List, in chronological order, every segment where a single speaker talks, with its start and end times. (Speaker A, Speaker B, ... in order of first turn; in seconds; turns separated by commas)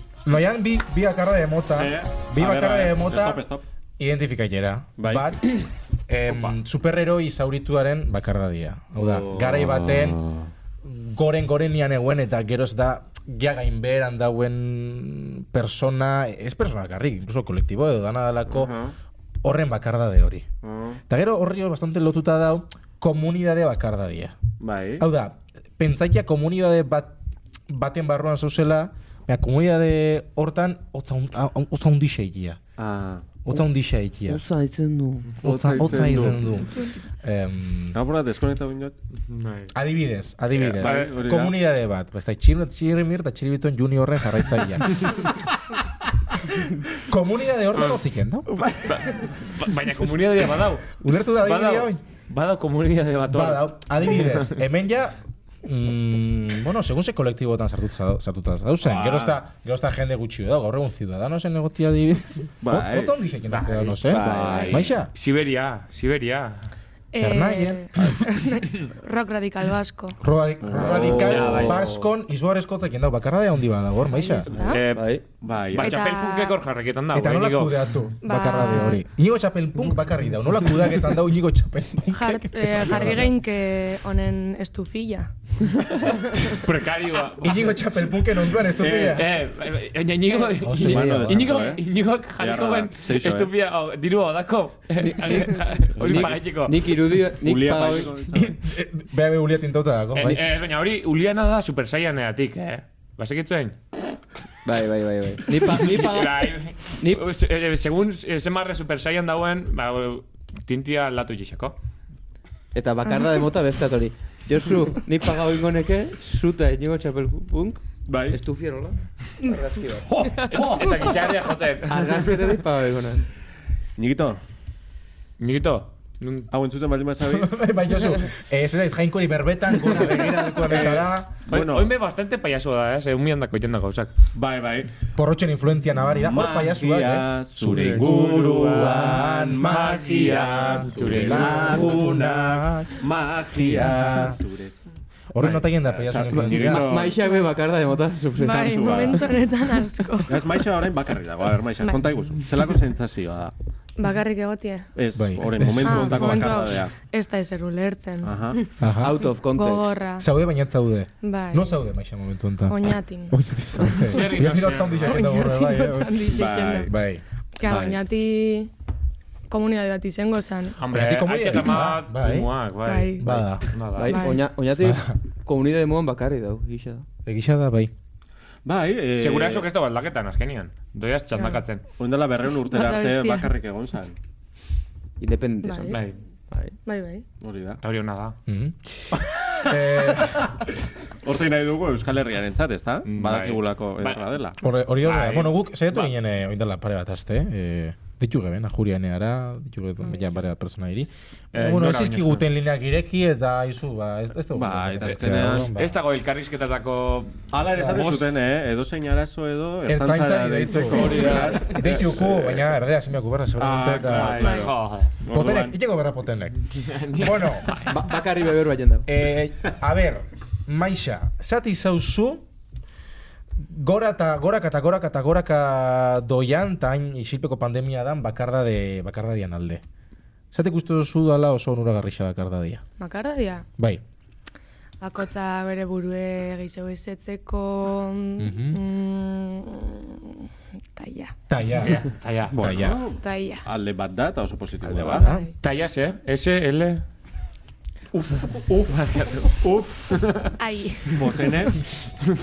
Speaker A: 0.2-3.4, Speaker B: 1.7-3.6, Speaker A: 4.0-10.2, Speaker B: 5.0-5.3, Speaker B: 9.0-10.5, Speaker A: 10.8-18.7, Speaker B: 18.5-18.9, Speaker A: 19.4-20.5, Speaker B: 20.6-21.0, Speaker A: 21.1-24.4, Speaker B: 24.6-25.1, Speaker A: 25.0-27.2, Speaker A: 27.7-32.6, Speaker B: 32.8-33.3, Speaker A: 33.4-34.4, Speaker C: 34.3-36.4, Speaker B: 35.4-36.7, Speaker A: 35.4-38.0, Speaker B: 37.9-39.0, Speaker D: 39.3-39.7, Speaker A: 39.7-45.2, Speaker D: 40.6-41.1, Speaker B: 40.6-41.5, Speaker A: 46.6-48.5, Speaker D: 48.7-54.5, Speaker A: 51.0-52.0, Speaker A: 53.3-65.1, Speaker B: 58.8-59.4, Speaker B: 62.6-63.1, Speaker D: 63.5-64.0, Speaker C: 64.0-64.8, Speaker B: 64.1-65.0, Speaker D: 65.1-66.7, Speaker E: 67.1-70.2, Speaker A: 67.2-68.1, Speaker A: 70.2-74.5, Speaker B: 70.6-71.7, Speaker C: 70.8-72.1, Speaker D: 70.8-71.9, Speaker E: 74.1-74.8, Speaker C: 74.5-75.2, Speaker D: 74.7-75.1, Speaker B: 75.4-76.1, Speaker D: 75.7-77.9, Speaker E: 75.8-76.6, Speaker A: 77.1-83.3, Speaker E: 78.2-79.0, Speaker E: 82.1-85.3, Speaker D: 86.0-87.8, Speaker A: 87.4-89.3, Speaker B: 88.8-89.2, Speaker D: 88.9-96.8, Speaker A: 90.6-91.6, Speaker B: 90.8-91.8, Speaker C: 90.8-91.2, Speaker B: 92.4-93.5, Speaker C: 95.0-98.1, Speaker B: 96.0-96.4, Speaker B: 97.3-98.6, Speaker A: 98.3-100.4, Speaker D: 100.2-103.8, Speaker C: 104.7-107.2, Speaker D: 105.7-111.8, Speaker C: 112.8-120.3, Speaker B: 118.1-118.4, Speaker B: 120.2-121.3, Speaker D: 120.2-122.6, Speaker C: 121.9-123.3, Speaker B: 124.0-124.4, Speaker D: 125.4-126.5, Speaker B: 126.5-127.7, Speaker A: 127.3-131.3, Speaker B: 130.6-131.9, Speaker D: 131.5-134.1, Speaker B: 134.3-134.9, Speaker A: 135.2-144.4, Speaker B: 136.1-144.8, Speaker D: 137.7-142.1, Speaker A: 145.3-146.9, Speaker B: 145.8-147.2, Speaker C: 146.5-149.1, Speaker E: 148.4-150.5, Speaker B: 148.7-149.3, Speaker B: 150.3-153.5, Speaker E: 154.0-154.9, Speaker B: 154.9-156.9, Speaker A: 155.2-156.5, Speaker E: 155.8-158.6, Speaker B: 158.2-158.6, Speaker A: 158.8-159.2, Speaker C: 159.0-160.0, Speaker E: 159.5-160.3, Speaker A: 160.2-166.3, Speaker E: 161.2-161.7, Speaker E: 162.7-163.4, Speaker E: 164.0-164.4, Speaker D: 164.0-165.3, Speaker E: 165.1-166.9, Speaker B: 166.3-166.9, Speaker A: 166.8-167.2, Speaker E: 167.6-168.7, Speaker B: 167.6-168.0, Speaker E: 169.5-170.8, Speaker D: 170.8-174.3, Speaker A: 170.9-172.5, Speaker E: 172.9-173.3, Speaker A: 173.2-173.7, Speaker C: 173.9-177.1, Speaker E: 174.1-174.4, Speaker A: 174.8-175.2, Speaker A: 177.2-177.9, Speaker B: 178.7-179.7, Speaker D: 179.2-181.8, Speaker E: 181.3-181.6, Speaker B: 182.0-184.2, Speaker E: 182.7-183.5, Speaker C: 185.2-186.8, Speaker E: 185.6-186.0, Speaker D: 185.9-186.2, Speaker E: 186.8-187.2, Speaker B: 187.4-187.8, Speaker D: 187.8-188.4, Speaker A: 188.5-188.8, Speaker A: 189.6-190.6, Speaker B: 191.2-194.6, Speaker D: 193.1-194.2, Speaker A: 194.6-206.0, Speaker D: 195.0-196.1, Speaker D: 201.5-202.5, Speaker B: 204.5-205.7, Speaker D: 205.1-208.4, Speaker B: 207.5-212.7, Speaker A: 209.9-214.6, Speaker C: 210.9-211.8, Speaker B: 213.6-215.8, Speaker D: 214.0-215.1, Speaker A: 215.3-216.6, Speaker D: 216.7-217.9, Speaker A: 217.1-217.7, Speaker C: 217.7-219.1, Speaker A: 219.1-222.4, Speaker A: 223.6-229.8, Speaker A: 230.5-232.8, Speaker E: 233.0-233.7, Speaker A: 233.8-234.0, Speaker E: 235.0-241.3, Speaker A: 238.4-238.8, Speaker A: 241.5-242.0, Speaker D: 241.8-242.6, Speaker B: 242.5-245.3, Speaker A: 242.6-243.0, Speaker E: 243.2-243.7, Speaker A: 244.8-245.5, Speaker E: 245.1-245.5, Speaker D: 245.6-247.0, Speaker B: 248.1-248.8, Speaker D: 248.5-250.5, Speaker B: 249.6-250.1, Speaker E: 250.6-251.4, Speaker B: 251.1-251.8